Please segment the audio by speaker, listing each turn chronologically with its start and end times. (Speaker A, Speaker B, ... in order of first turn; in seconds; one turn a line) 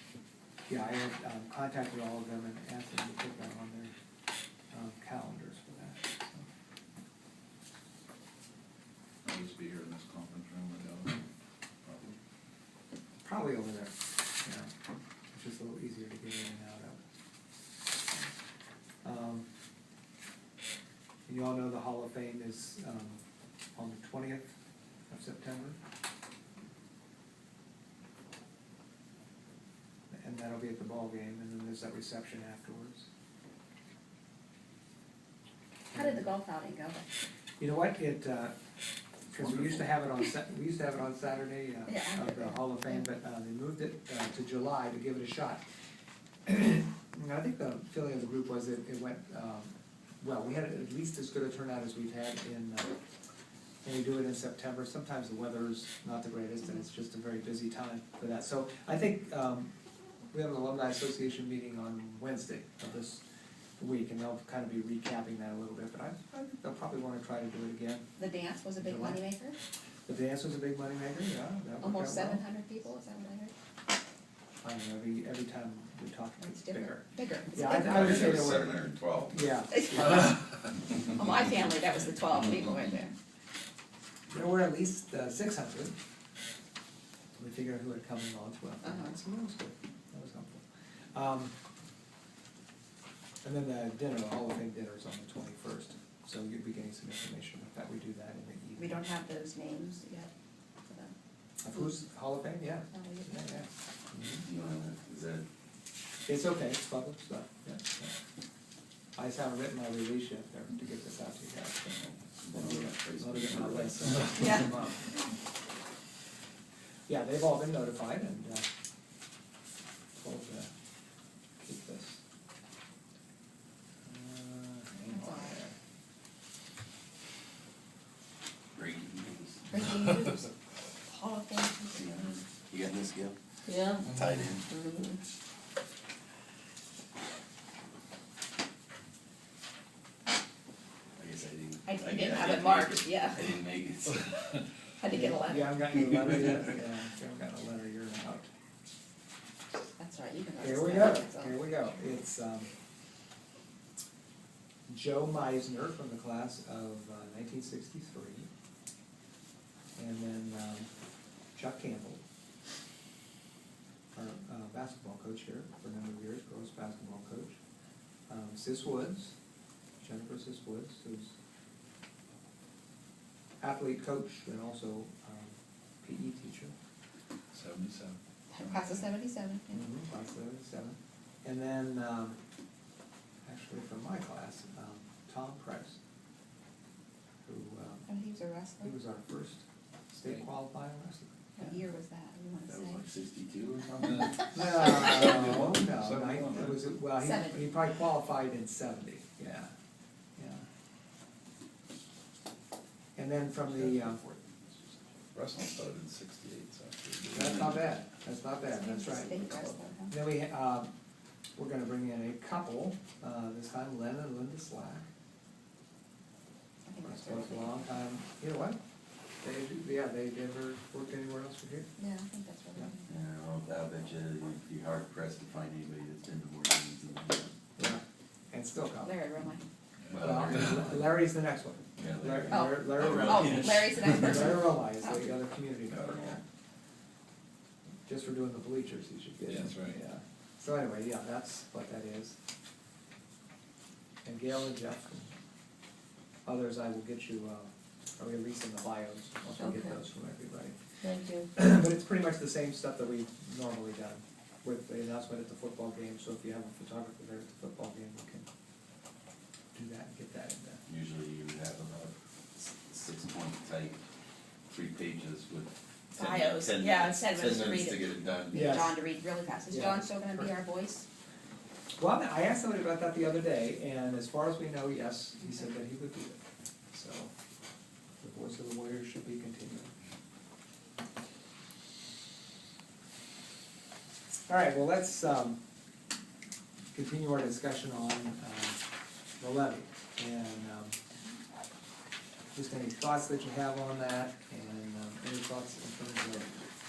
Speaker A: 0.7-3.9
Speaker A: 4.7-6.5
Speaker B: 9.2-11.2
Speaker B: 11.8-12.2
Speaker A: 13.2-14.7
Speaker A: 15.3-17.0
Speaker A: 19.0-19.5
Speaker A: 21.3-23.2
Speaker A: 23.8-24.6
Speaker A: 25.1-25.8
Speaker A: 30.1-33.1
Speaker C: 35.9-37.1
Speaker A: 35.9-36.3
Speaker A: 37.6-38.5
Speaker A: 39.3-45.6
Speaker C: 41.9-43.0
Speaker A: 46.5-53.0
Speaker A: 53.8-59.7
Speaker A: 60.3-63.2
Speaker A: 63.8-68.1
Speaker C: 68.2-69.6
Speaker A: 68.8-69.2
Speaker A: 70.1-72.4
Speaker C: 71.8-73.5
Speaker A: 74.6-80.4
Speaker C: 76.4-78.4
Speaker D: 77.8-79.6
Speaker C: 79.7-80.4
Speaker C: 81.0-83.2
Speaker A: 84.3-86.0
Speaker A: 87.4-91.5
Speaker C: 88.8-89.2
Speaker A: 93.4-99.0
Speaker C: 98.8-100.3
Speaker C: 100.9-101.1
Speaker A: 101.6-103.7
Speaker C: 102.9-103.5
Speaker D: 104.2-105.5
Speaker A: 106.3-108.1
Speaker A: 109.2-115.2
Speaker D: 112.4-114.4
Speaker C: 114.4-114.7
Speaker A: 117.1-118.7
Speaker A: 120.2-120.7
Speaker A: 121.6-122.2
Speaker A: 124.0-125.8
Speaker C: 124.9-125.6
Speaker D: 128.8-130.3
Speaker C: 129.7-130.5
Speaker C: 131.1-132.2
Speaker D: 131.9-133.4
Speaker C: 133.7-134.1
Speaker D: 134.0-134.7
Speaker C: 134.7-135.2
Speaker D: 141.2-144.3
Speaker C: 141.8-143.4
Speaker C: 145.0-146.2
Speaker A: 145.1-148.5
Speaker C: 150.0-151.8
Speaker A: 150.6-152.7
Speaker A: 154.9-158.5
Speaker A: 160.0-160.9
Speaker A: 161.5-162.2
Speaker A: 164.2-167.6
Speaker A: 168.3-169.4
Speaker A: 170.0-171.3
Speaker A: 173.6-176.7
Speaker B: 177.5-179.0
Speaker C: 178.5-179.9
Speaker A: 179.7-182.4
Speaker A: 183.4-186.0
Speaker A: 187.4-188.1
Speaker C: 188.1-188.9
Speaker A: 188.8-191.8
Speaker C: 191.6-193.0
Speaker D: 192.7-194.5
Speaker B: 194.1-196.9
Speaker A: 194.5-199.7
Speaker C: 197.2-197.7
Speaker A: 200.4-200.7
Speaker A: 203.2-204.2
Speaker D: 203.7-205.4
Speaker B: 205.3-207.4
Speaker D: 207.1-207.6
Speaker A: 207.2-210.9
Speaker C: 208.7-210.2
Speaker A: 211.6-215.1
Speaker C: 216.9-217.9
Speaker A: 217.0-218.8
Speaker A: 219.4-221.9
Speaker C: 222.0-223.1
Speaker D: 223.1-227.5
Speaker A: 227.8-229.4
Speaker C: 229.0-229.6
Speaker B: 230.0-230.8
Speaker D: 230.1-231.1
Speaker A: 230.2-236.4
Speaker D: 232.0-234.6
Speaker C: 232.5-234.9
Speaker D: 235.9-236.4
Speaker A: 238.1-242.4
Speaker B: 239.4-240.0
Speaker A: 244.2-245.3
Speaker A: 246.4-250.8
Speaker C: 249.6-250.0
Speaker C: 251.0-251.5
Speaker A: 251.5-258.5
Speaker A: 259.7-260.8
Speaker D: 260.9-264.0
Speaker D: 264.7-268.7
Speaker C: 266.1-271.1
Speaker A: 268.5-268.9
Speaker A: 269.7-270.5
Speaker A: 272.0-276.4
Speaker A: 276.9-277.3
Speaker A: 278.2-279.9
Speaker A: 284.5-285.6
Speaker A: 286.9-288.8
Speaker A: 289.4-291.0
Speaker A: 292.5-296.5